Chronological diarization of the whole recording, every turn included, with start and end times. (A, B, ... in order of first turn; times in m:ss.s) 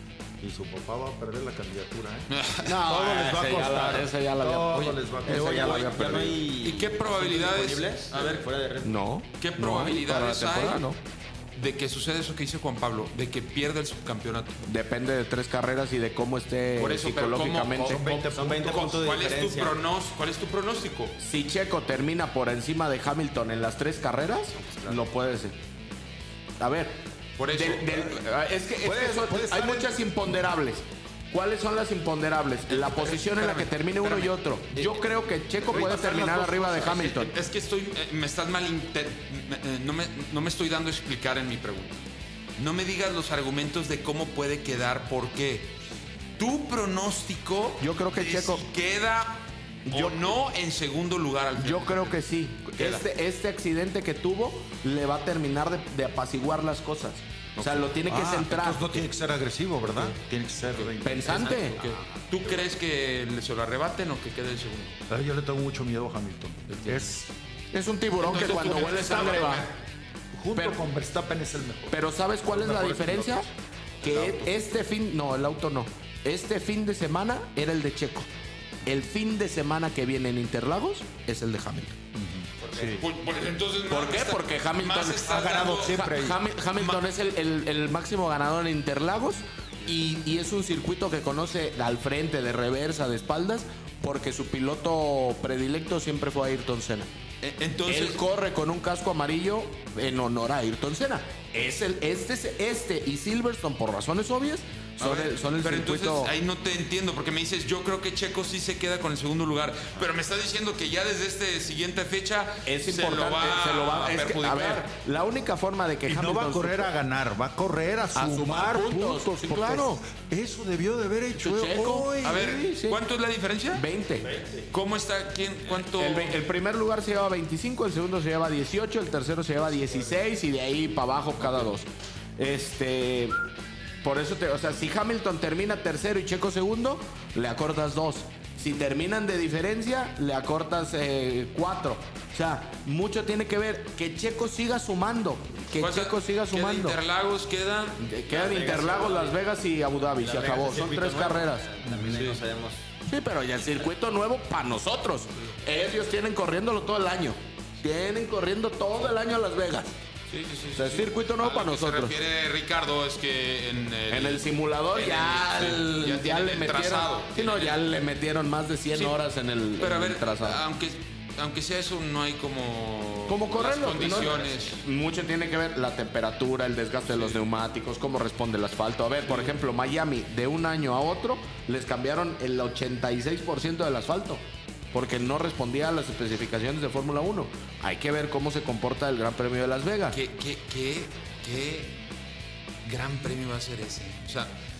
0:00.4-0:05.9 A
0:02.3-0:02.8 B
0:02.6-0:06.4 C
0:05.2-0:09.0 D
0:06.6-0:08.4 B
0:08.8-0:11.0 C
0:09.4-0:10.9 B
0:11.5-0:14.6 B
0:14.6-0:18.0 C
0:16.8-0:21.2 B
0:17.8-0:18.9 A
0:18.3-0:19.8 D
0:21.2-0:25.5 C
0:24.5-0:25.0 D
0:26.6-0:37.3 C
0:27.4-0:28.2 B
0:28.8-0:30.0 A
0:32.7-0:35.0 B
0:35.6-0:42.0 B
0:35.7-0:36.4 A
0:42.6-0:45.7 B
0:46.4-0:52.2 B
0:47.8-0:48.6 C
0:49.9-0:50.4 C
0:51.6-0:59.0 C
0:52.7-0:53.0 B
0:57.6-0:57.9 B
0:58.1-1:01.9 A
1:00.7-1:05.0 B
1:01.0-1:01.8 C
1:05.1-1:07.3 A
1:06.7-1:07.1 B
1:07.7-1:09.7 C
1:08.2-1:09.8 B
1:10.3-1:14.5 A
1:10.5-1:10.8 C
1:11.9-1:13.5 C
1:14.0-1:18.3 C
1:18.8-1:22.0 C
1:22.1-1:23.0 A
1:22.6-1:26.2 B
1:23.9-1:37.1 C
1:25.2-1:26.4 A
1:26.8-1:27.0 B
1:37.4-1:38.2 B
1:37.9-1:46.3 C
1:45.0-1:54.9 B
1:52.6-1:56.9 C
1:56.0-2:02.4 A
1:58.1-2:00.0 C
2:01.4-2:03.0 C
2:02.2-2:03.8 B
2:03.7-2:04.3 C
2:04.2-2:04.7 A
2:04.7-2:06.4 B
2:05.9-2:11.9 C
2:12.4-2:13.4 C
2:14.0-2:27.0 C
2:25.7-2:28.0 B
2:28.0-2:31.7 C
2:28.3-2:29.4 D
2:30.0-2:32.8 D
2:31.8-2:32.2 A
2:32.0-2:32.4 B
2:33.0-2:39.9 C
2:40.3-2:47.8 B
2:40.8-2:42.2 C
2:44.1-2:50.6 C
2:48.9-2:49.2 B
2:49.8-2:54.8 B
2:53.3-3:10.2 C
2:57.1-2:57.4 B
2:59.2-2:59.6 B
3:10.1-3:12.0 B
3:12.8-3:14.5 B